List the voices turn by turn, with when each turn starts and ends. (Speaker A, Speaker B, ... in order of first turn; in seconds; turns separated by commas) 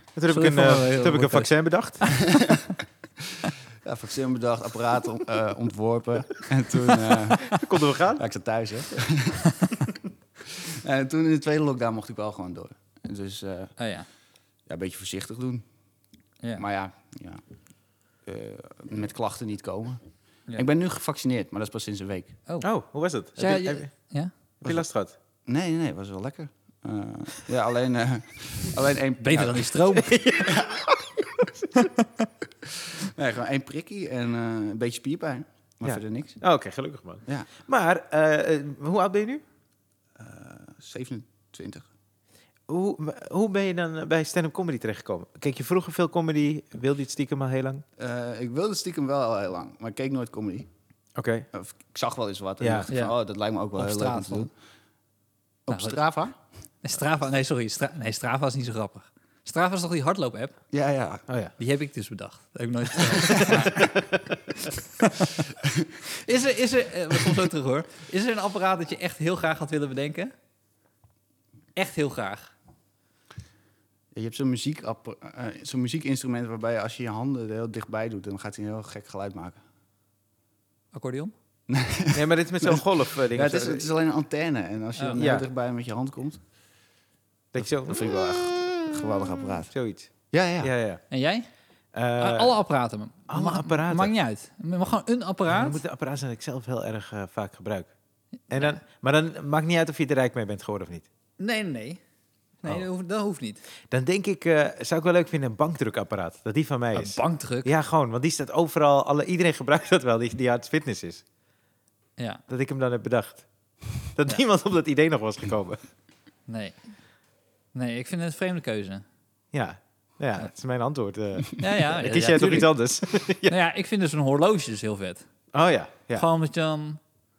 Speaker A: 0.1-2.2, Speaker B: 0.3-1.5, Speaker B: 2.0-2.4, Speaker C: 2.3-2.7, Speaker C: 3.8-9.9, Speaker A: 7.1-8.2, Speaker C: 10.4-13.7, Speaker B: 13.8-14.1, Speaker C: 14.7-15.6, Speaker C: 16.6-17.4, Speaker C: 18.2-20.0, Speaker C: 20.6-22.4, Speaker A: 22.6-23.9, Speaker B: 23.4-24.3, Speaker A: 24.6-25.1, Speaker C: 25.5-29.8, Speaker B: 29.2-30.1, Speaker A: 29.9-31.6, Speaker C: 30.4-30.9, Speaker B: 31.7-32.2, Speaker C: 32.6-36.4, Speaker A: 35.8-39.4, Speaker C: 40.1-41.9, Speaker A: 42.7-47.8, Speaker C: 48.0-50.7, Speaker A: 51.2-51.5, Speaker C: 51.5-54.5, Speaker A: 52.6-52.9, Speaker B: 52.9-53.1, Speaker B: 53.8-54.5, Speaker C: 55.7-56.4, Speaker B: 55.7-56.0, Speaker B: 56.8-60.5, Speaker C: 60.7-61.2, Speaker A: 61.3-61.5, Speaker B: 61.6-63.9, Speaker A: 63.2-64.0, Speaker B: 64.6-65.5, Speaker C: 65.6-65.9, Speaker B: 66.1-70.3, Speaker B: 71.7-72.5, Speaker C: 74.1-79.6, Speaker B: 80.9-81.3, Speaker C: 81.7-86.4, Speaker A: 82.1-83.9, Speaker B: 85.0-85.2, Speaker A: 85.2-85.5, Speaker A: 87.5-88.0, Speaker C: 87.6-89.7, Speaker A: 89.7-91.0, Speaker C: 90.3-90.7, Speaker B: 91.1-91.5, Speaker A: 91.9-92.6, Speaker B: 92.2-95.8, Speaker A: 93.3-94.1, Speaker A: 95.5-97.9, Speaker A: 98.5-101.0, Speaker B: 98.5-98.8, Speaker B: 101.4-102.0, Speaker B: 102.6-103.6, Speaker A: 103.9-111.2, Speaker B: 106.9-107.7, Speaker B: 112.2-112.4, Speaker A: 112.5-113.4, Speaker A: 114.1-115.8, Speaker B: 116.5-116.8, Speaker B: 117.7-119.0, Speaker A: 119.5-123.5, Speaker B: 121.6-122.7, Speaker B: 123.4-125.2, Speaker A: 125.5-126.2, Speaker B: 126.1-127.0